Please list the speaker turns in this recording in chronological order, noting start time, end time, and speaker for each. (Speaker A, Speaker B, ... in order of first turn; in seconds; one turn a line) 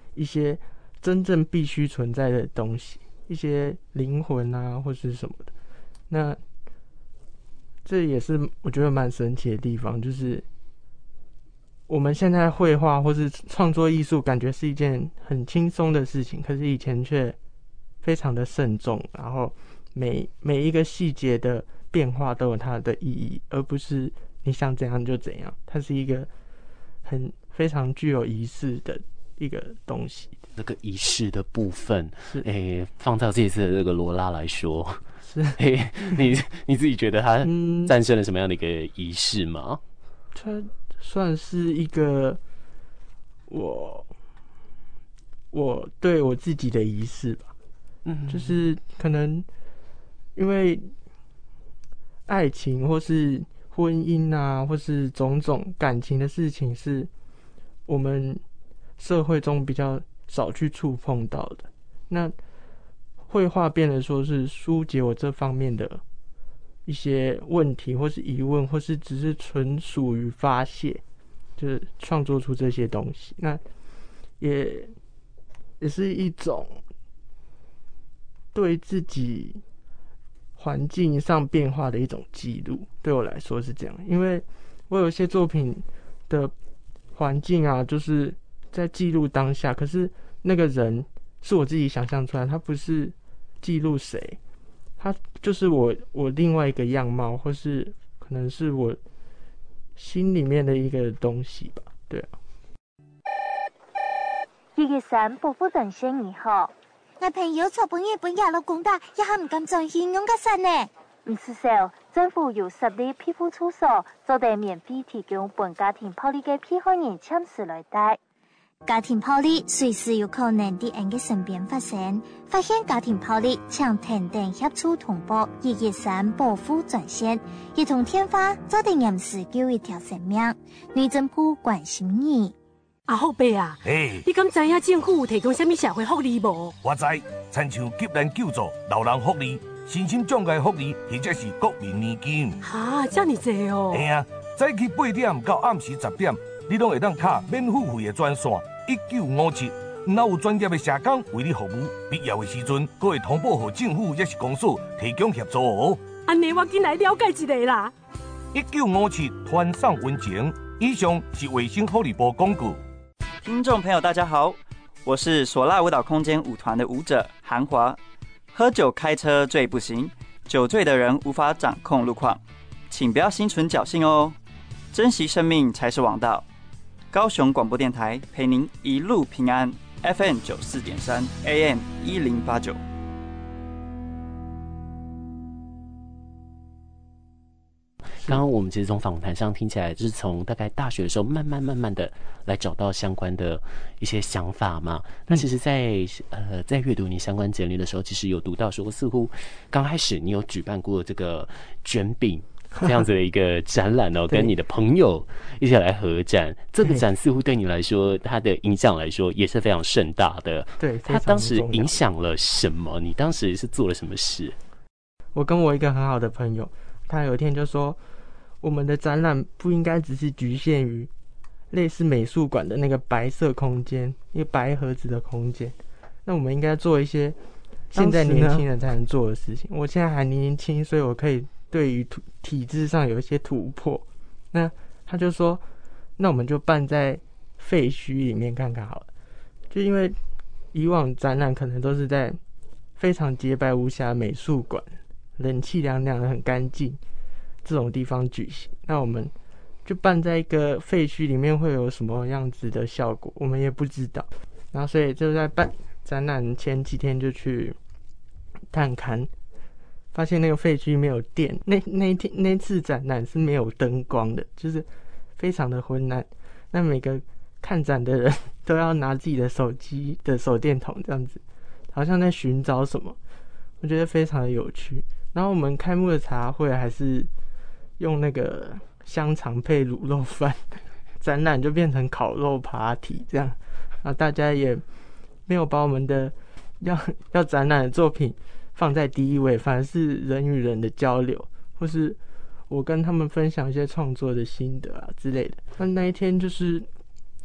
Speaker A: 0.1-5.5
Speaker A: 6.1-6.4
Speaker A: 7.8-10.4
Speaker A: 11.9-17.4
Speaker A: 18.0-26.3
Speaker A: 27.1-30.4
Speaker B: 30.5-35.0
Speaker A: 35.2-35.6
Speaker B: 35.6-39.8
Speaker A: 37.4-37.9
Speaker A: 40.3-42.4
Speaker A: 43.5-44.1
Speaker A: 45.5-47.5
Speaker B: 48.0-48.6
Speaker A: 48.3-49.5
Speaker A: 50.4-50.9
Speaker A: 52.3-57.1
Speaker A: 57.9-58.4
Speaker A: 59.0-62.3
Speaker A: 63.3-66.0
Speaker A: 66.9-71.0
Speaker A: 71.6-73.6
Speaker A: 74.4-74.9
Speaker A: 75.8-76.8
Speaker A: 78.5-79.6
Speaker A: 80.6-86.5
Speaker A: 87.2-94.4
Speaker A: 95.0-99.0
Speaker A: 100.0-102.3
Speaker C: 104.8-106.7
Speaker D: 107.2-110.9
Speaker C: 111.2-118.2
Speaker D: 118.9-132.6
Speaker E: 133.1-136.8
Speaker F: 133.8-134.2
Speaker F: 136.8-142.6
Speaker E: 142.6-144.1
Speaker F: 143.9-156.0
Speaker E: 156.2-157.9
Speaker F: 158.5-162.8
Speaker G: 163.4-168.0
Speaker G: 168.5-174.4
Speaker G: 174.9-176.5
Speaker G: 177.1-182.8
Speaker B: 188.2-214.6
Speaker A: 210.8-212.0
Speaker A: 215.3-218.0
Speaker A: 218.6-221.1
Speaker A: 221.7-225.8
Speaker A: 226.3-227.4
Speaker A: 227.9-235.6
Speaker B: 228.0-228.6
Speaker A: 236.2-239.1
Speaker A: 239.7-240.2
Speaker A: 240.7-242.4
Speaker A: 243.0-247.0
Speaker A: 247.6-249.3
Speaker A: 249.8-257.8
Speaker A: 258.7-259.3
Speaker A: 260.1-264.9
Speaker A: 265.4-271.4
Speaker A: 271.9-273.2
Speaker A: 273.8-277.3
Speaker A: 278.0-284.8
Speaker A: 285.5-292.2
Speaker A: 292.7-296.9